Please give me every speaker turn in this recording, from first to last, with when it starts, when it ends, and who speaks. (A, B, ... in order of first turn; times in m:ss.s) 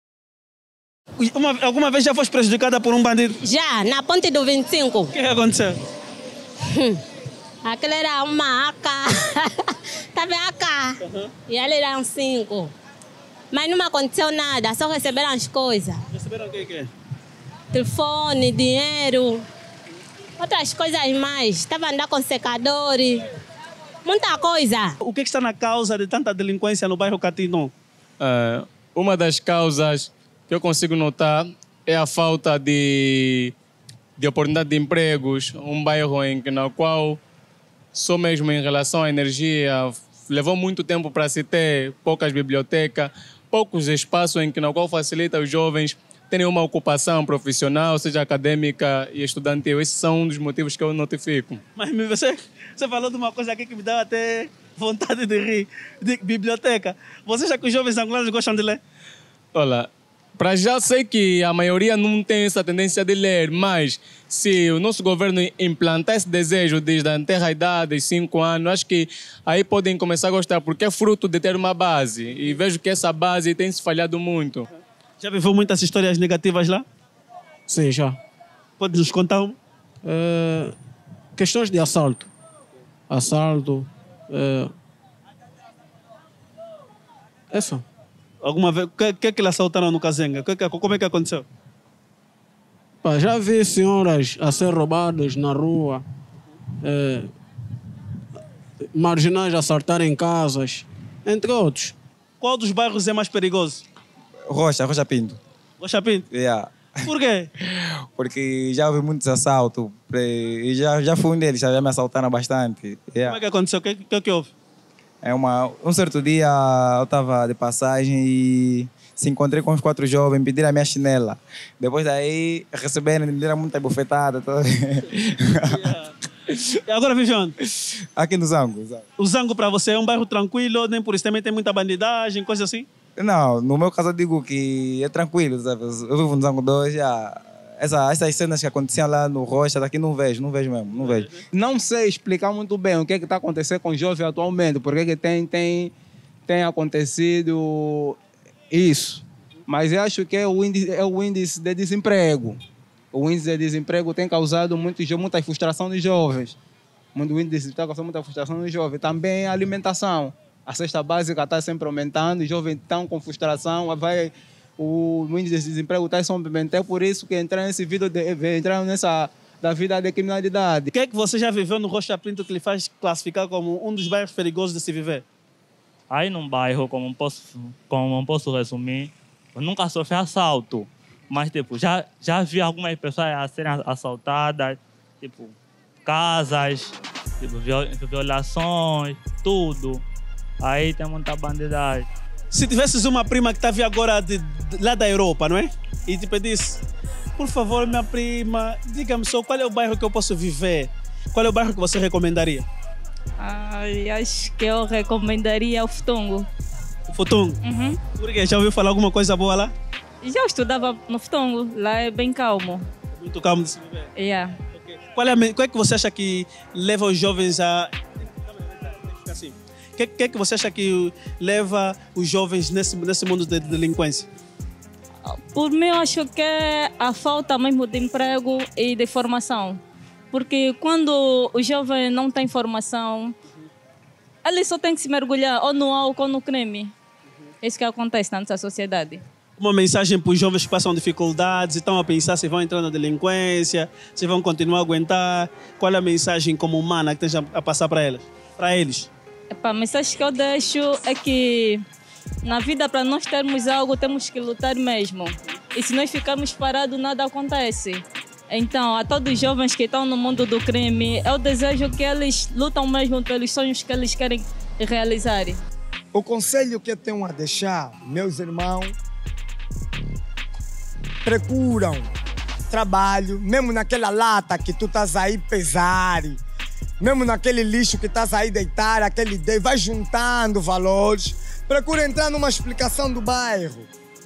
0:01.2-0:03.4 A
0:03.5-0:05.1 B
0:05.1-0:05.8 A
0:06.7-0:07.0 B
0:07.7-0:10.9 B
0:11.0-0:11.3 A
0:11.5-0:12.7 B
0:13.5-0:16.0 B
0:16.1-0:16.9 A
0:17.7-0:19.4 B
0:20.4-0:23.2 B
0:24.0-0:24.9 B
0:25.0-0:27.7 A
0:28.2-0:33.5 C
0:34.2-0:37.2 C
0:37.9-0:51.6 C
0:51.8-0:58.8 A
0:59.5-1:14.7 C
1:15.2-1:16.8 A
1:17.7-1:18.2 D
1:18.8-1:19.6 A
1:20.0-1:20.7 D
1:21.4-1:22.3 D
1:23.1-1:24.7 D
1:27.5-1:27.8 D
1:28.4-1:31.4 A
1:33.0-1:36.0 D
1:36.8-1:37.3 D
1:38.9-1:41.9 D
1:42.4-1:43.8 A
1:44.5-1:45.4 E
1:45.8-1:46.2 A
1:46.3-1:46.8 E
1:47.1-1:47.5 A
1:48.1-1:53.4 E
1:53.2-1:54.5 A
1:55.2-2:05.9 E
2:05.7-2:06.1 A
2:06.9-2:07.5 A
2:07.8-2:09.0 E
2:09.2-2:12.9 A
2:13.2-2:21.3 E
2:21.0-2:21.4 A
2:21.5-2:25.9 F
2:26.5-2:28.2 F
2:28.7-2:32.6 F
2:33.1-2:36.6 F
2:37.1-2:50.9 F
2:50.9-2:55.2 A
2:56.1-3:05.5 G
3:06.0-3:10.0 G
3:10.6-3:12.1 G
3:12.5-3:16.8 A
3:17.4-3:22.6 A
3:23.4-3:26.5 H
3:27.1-3:27.6 A
3:27.6-3:28.0 H
3:28.1-3:29.7 A
3:30.2-3:32.8 H
3:33.1-3:34.1 A
3:34.1-3:34.5 H
3:34.7-3:44.3 A
3:45.2-3:49.8 H
3:50.3-3:53.4 H
3:54.4-3:56.9 H
3:57.6-3:59.2 H
3:59.6-4:09.1 A
4:09.5-4:11.8 H
4:12.4-4:25.6 H
4:26.1-4:28.9 I
4:31.2-4:32.1 I
4:32.7-4:36.4 I
4:37.0-4:43.9 I